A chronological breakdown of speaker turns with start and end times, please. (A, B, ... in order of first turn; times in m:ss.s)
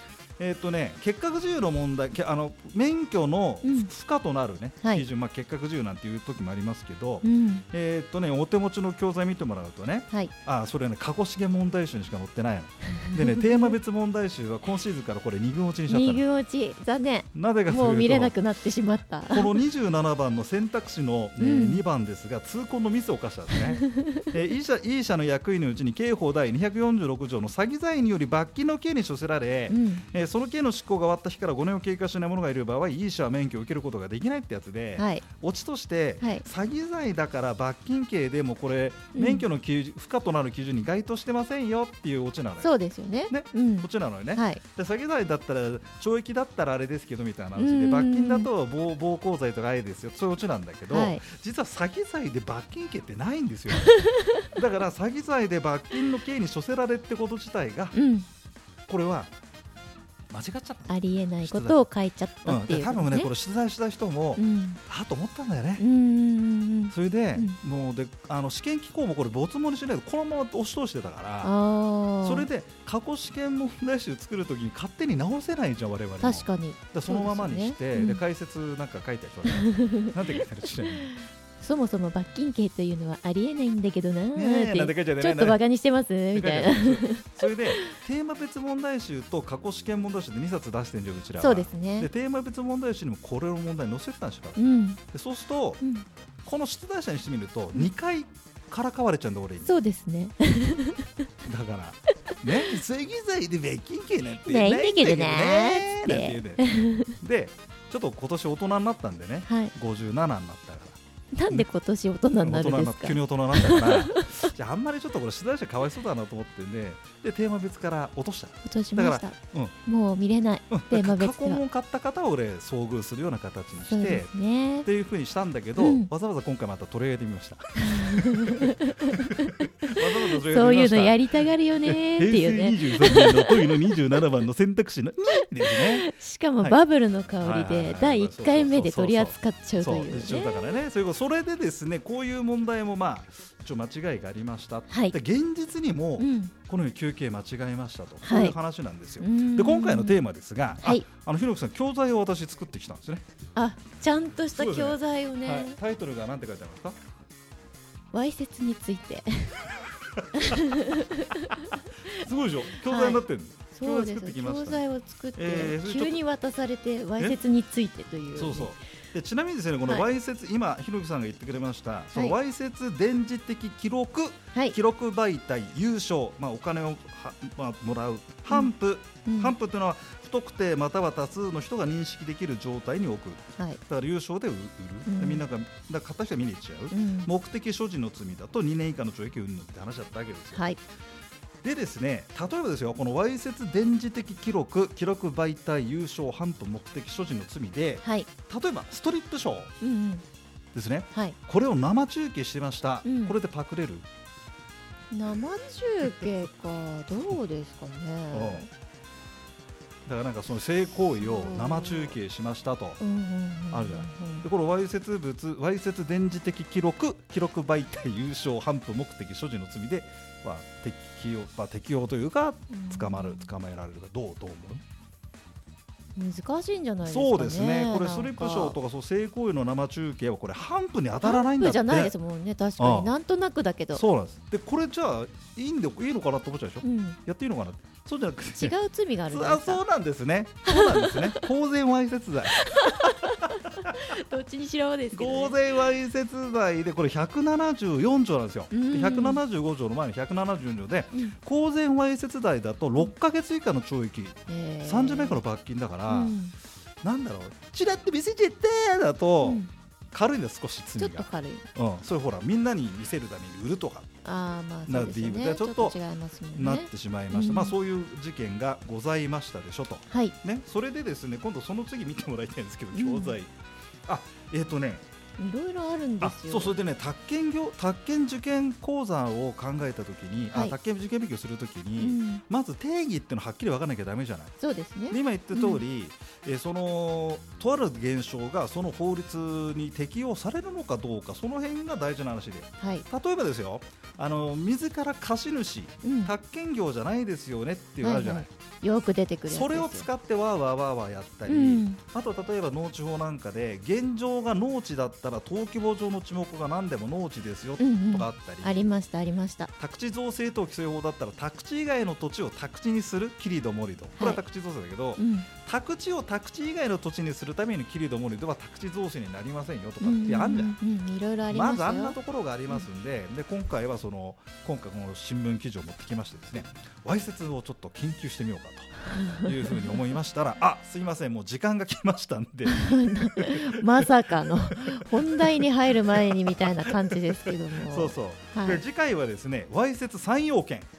0:00.4-0:16.2 A
0:03.6-0:03.9 B
0:07.2-0:07.6 B
0:13.0-0:13.8 B
0:15.9-0:19.6 B
0:17.3-0:18.4 A
0:19.3-0:42.7 A
0:21.4-0:21.8 B
0:23.8-0:24.2 B
0:29.7-0:30.0 B
0:35.0-0:35.2 B
0:39.2-0:39.4 B
0:42.6-0:44.6 B
0:43.3-0:53.9 A
0:47.6-0:48.5 B
0:50.9-0:51.2 B
0:53.8-0:54.4 B
0:54.5-0:58.0 A
0:57.9-0:58.3 B
0:58.9-0:59.3 A
1:00.3-1:01.8 A
1:00.9-1:03.3 B
1:02.4-1:05.8 A
1:04.4-1:04.8 B
1:05.8-1:07.6 B
1:06.9-1:11.5 A
1:11.4-1:12.5 B
1:12.2-1:21.2 A
1:16.2-1:18.2 B
1:19.5-1:20.1 B
1:21.6-1:27.8 B
1:24.3-1:25.6 A
1:26.3-1:35.8 A
1:31.4-1:32.1 B
1:34.6-1:35.0 B
1:35.8-1:36.1 B
1:36.4-1:39.7 A
1:39.6-1:41.1 B
1:41.4-1:51.0 A
1:44.4-1:47.1 B
1:49.5-1:49.7 B
1:51.4-1:54.3 B
1:52.4-1:59.7 A
1:58.6-2:01.6 B
2:00.7-2:04.3 A
2:03.9-2:04.9 B
2:04.8-2:08.7 A
2:05.8-2:06.1 B
2:07.9-2:13.7 B
2:09.4-2:11.2 A
2:11.8-2:16.1 A
2:15.7-2:20.8 B
2:17.4-2:33.2 A
2:24.9-2:25.2 B
2:26.2-2:26.5 B
2:28.2-2:28.6 B
2:29.2-2:30.2 B
2:33.6-2:35.8 B
2:34.5-2:37.0 A
2:38.1-2:39.6 B
2:40.4-2:41.8 B
2:42.1-2:44.8 A
2:42.8-2:43.2 B
2:43.8-2:48.8 B
2:45.4-2:46.2 A
2:48.4-3:10.8 A
2:59.3-2:59.5 B
3:05.1-3:05.4 B
3:06.9-3:07.3 B
3:10.5-3:10.8 B
3:11.6-3:19.7 A
3:18.0-3:18.3 B
3:19.8-3:20.2 B
3:20.7-3:24.0 A
3:23.0-3:23.4 B
3:25.1-3:28.7 B
3:28.3-3:28.6 A
3:30.1-3:33.0 A
3:31.2-3:32.2 B
3:33.0-3:34.4 B
3:33.7-3:44.8 A
3:42.7-3:43.5 B
3:46.2-3:48.8 B
3:47.0-3:52.1 A
3:51.2-3:54.0 B
3:52.8-3:53.1 A
3:53.9-3:58.8 A
3:56.8-3:57.2 B
3:58.6-3:59.8 B
3:59.3-4:03.5 A
4:00.7-4:01.5 B
4:02.5-4:05.6 B
4:05.1-4:16.4 A
4:08.7-4:09.4 B
4:14.5-4:15.4 B
4:16.1-4:16.5 B
4:17.0-4:24.1 A
4:19.4-4:19.7 B
4:21.0-4:21.7 B
4:24.2-4:27.8 B
4:24.9-4:26.0 A
4:26.6-4:33.5 A
4:30.1-4:30.4 B
4:32.9-4:33.4 B
4:34.1-4:35.0 A
4:35.4-4:36.8 B
4:36.2-4:44.6 A
4:42.0-4:42.4 B
4:44.6-4:45.8 B
4:45.1-4:58.5 A
4:52.8-4:53.1 B
4:56.0-4:56.3 B
4:58.0-5:00.1 B
4:59.5-5:08.9 A
5:01.5-5:02.0 B
5:07.8-5:09.7 B
5:09.8-5:20.8 A
5:14.2-5:14.4 B
5:15.2-5:15.5 B
5:20.0-5:22.2 B
5:21.5-5:34.1 A
5:29.1-5:30.0 B
5:32.7-5:38.8 B
5:36.2-5:36.7 A
5:37.9-5:40.9 A